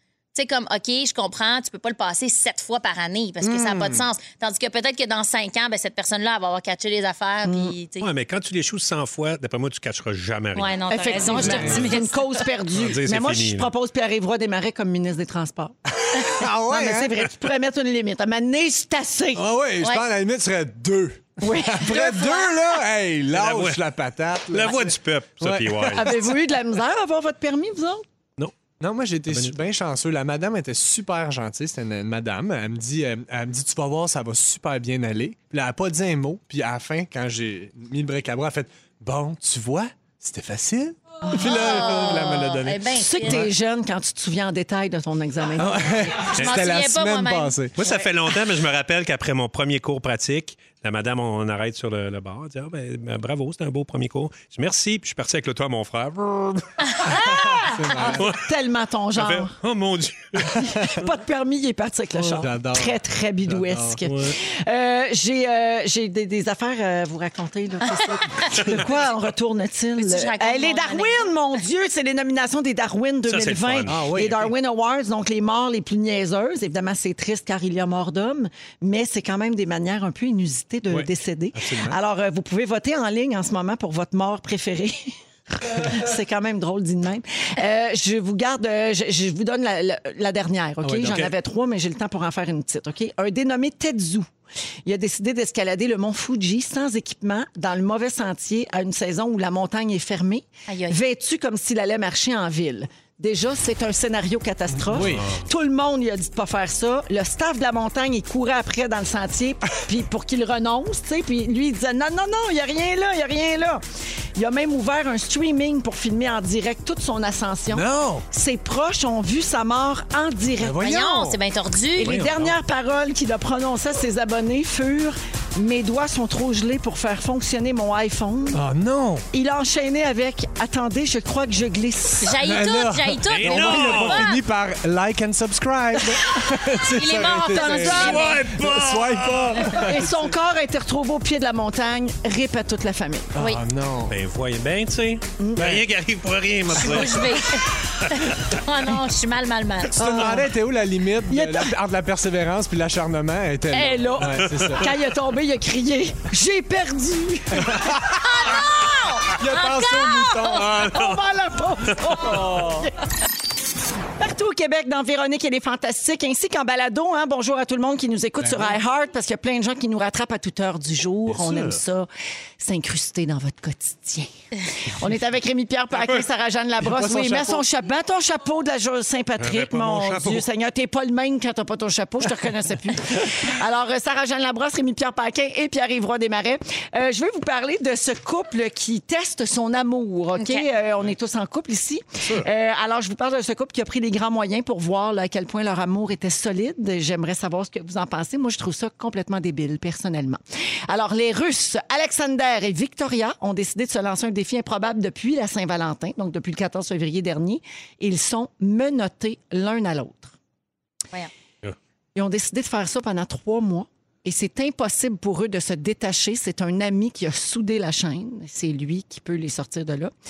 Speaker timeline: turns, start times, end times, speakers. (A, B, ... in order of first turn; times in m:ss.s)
0:00.3-0:08.1 A
0:03.4-0:04.1 B
0:07.4-0:07.7 C
0:08.0-0:10.8 D
0:10.5-0:12.4 A
0:10.9-0:19.4 C
0:11.3-0:12.0 B
0:11.5-0:11.8 D
0:12.8-0:13.7 D
0:16.0-0:17.2 B
0:19.4-0:26.2 B
0:21.4-0:22.6 C
0:23.3-0:23.8 D
0:24.5-0:26.3 D
0:25.9-0:28.0 C
0:28.8-0:43.5 B
0:41.2-0:42.0 C
0:41.4-0:43.5 A
0:42.9-0:46.3 C
0:45.6-0:47.8 B
0:46.3-0:47.6 A
0:47.8-0:57.1 D
0:57.0-0:57.6 A
0:57.1-0:59.5 C
0:57.1-0:58.3 B
0:59.2-1:01.1 D
1:00.5-1:34.3 C
1:02.2-1:04.0 B
1:04.0-1:04.4 D
1:10.0-1:11.3 A
1:13.3-1:14.0 D
1:13.9-1:14.5 B
1:20.9-1:22.0 B
1:30.8-1:31.3 B
1:34.8-1:53.8 C
1:40.7-1:41.0 A
1:44.7-1:45.3 B
1:45.0-1:45.4 D
1:54.4-2:00.8 C
1:57.7-1:58.2 B
2:00.6-2:01.4 B
2:00.8-2:02.2 A
2:02.0-2:08.6 C
2:02.0-2:02.5 D
2:08.5-2:09.3 B
2:09.3-2:12.4 C
2:12.2-2:14.4 A
2:12.4-2:20.3 B
2:13.3-2:14.4 D
2:16.8-2:18.4 A
2:17.5-2:18.3 C
2:17.9-2:19.6 D
2:19.8-2:23.3 C
2:23.3-2:24.2 B
2:23.4-2:23.6 A
2:24.1-2:27.4 D
2:25.4-2:25.8 C
2:26.8-2:30.4 A
2:30.0-2:35.0 B
2:30.0-2:30.4 C
2:31.3-2:31.7 C
2:33.7-2:37.9 C
2:37.6-2:38.3 B
2:38.2-2:40.7 A
2:39.3-2:41.2 B
2:40.8-2:42.9 C
2:42.2-2:42.8 B
2:44.2-3:30.3 C
2:48.4-2:48.8 B
2:51.3-2:51.8 D
2:56.8-2:57.6 B
2:59.4-3:00.4 D
3:10.4-3:10.7 A
3:32.2-3:40.1 C